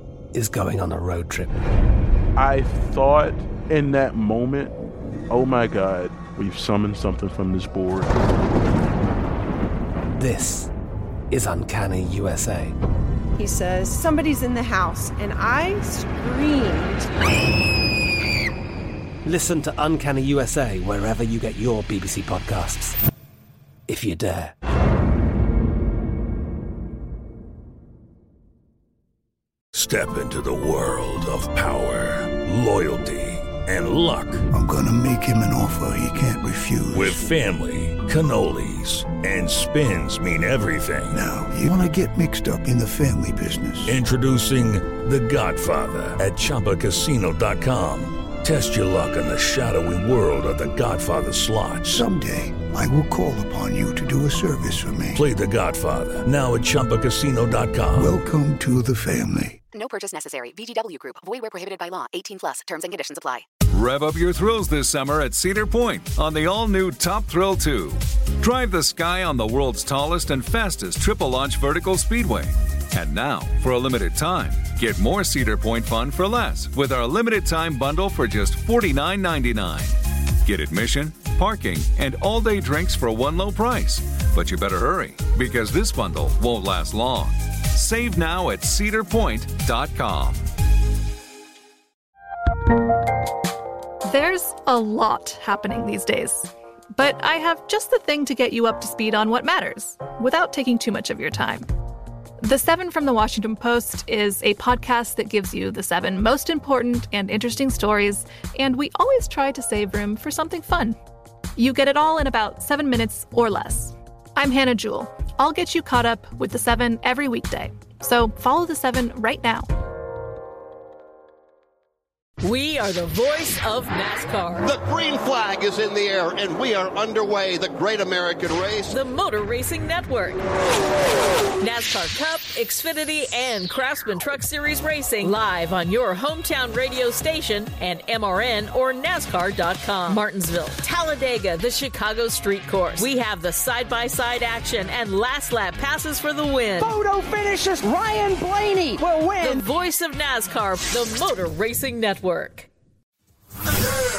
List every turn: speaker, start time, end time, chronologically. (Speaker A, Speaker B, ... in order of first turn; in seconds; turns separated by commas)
Speaker A: 0.3-1.5, Speaker B: 2.4-4.7, Speaker B: 5.3-8.1, Speaker A: 10.2-10.7, Speaker A: 11.3-12.7, Speaker C: 13.3-17.1, Speaker A: 19.2-22.9, Speaker A: 23.9-24.5, Speaker D: 29.7-34.5, Speaker E: 34.5-37.3, Speaker D: 36.9-41.2, Speaker E: 41.1-44.0, Speaker D: 43.8-52.1, Speaker E: 51.9-55.2, Speaker D: 55.1-58.2, Speaker E: 57.9-59.6, Speaker F: 59.7-63.5, Speaker G: 63.7-90.4, Speaker H: 94.1-101.7, Speaker H: 102.4-111.0, Speaker H: 111.6-119.7, Speaker I: 122.4-124.7, Speaker J: 124.6-129.0, Speaker I: 128.9-130.4, Speaker I: 131.6-146.9, Speaker K: 146.8-149.7, Speaker I: 149.4-152.7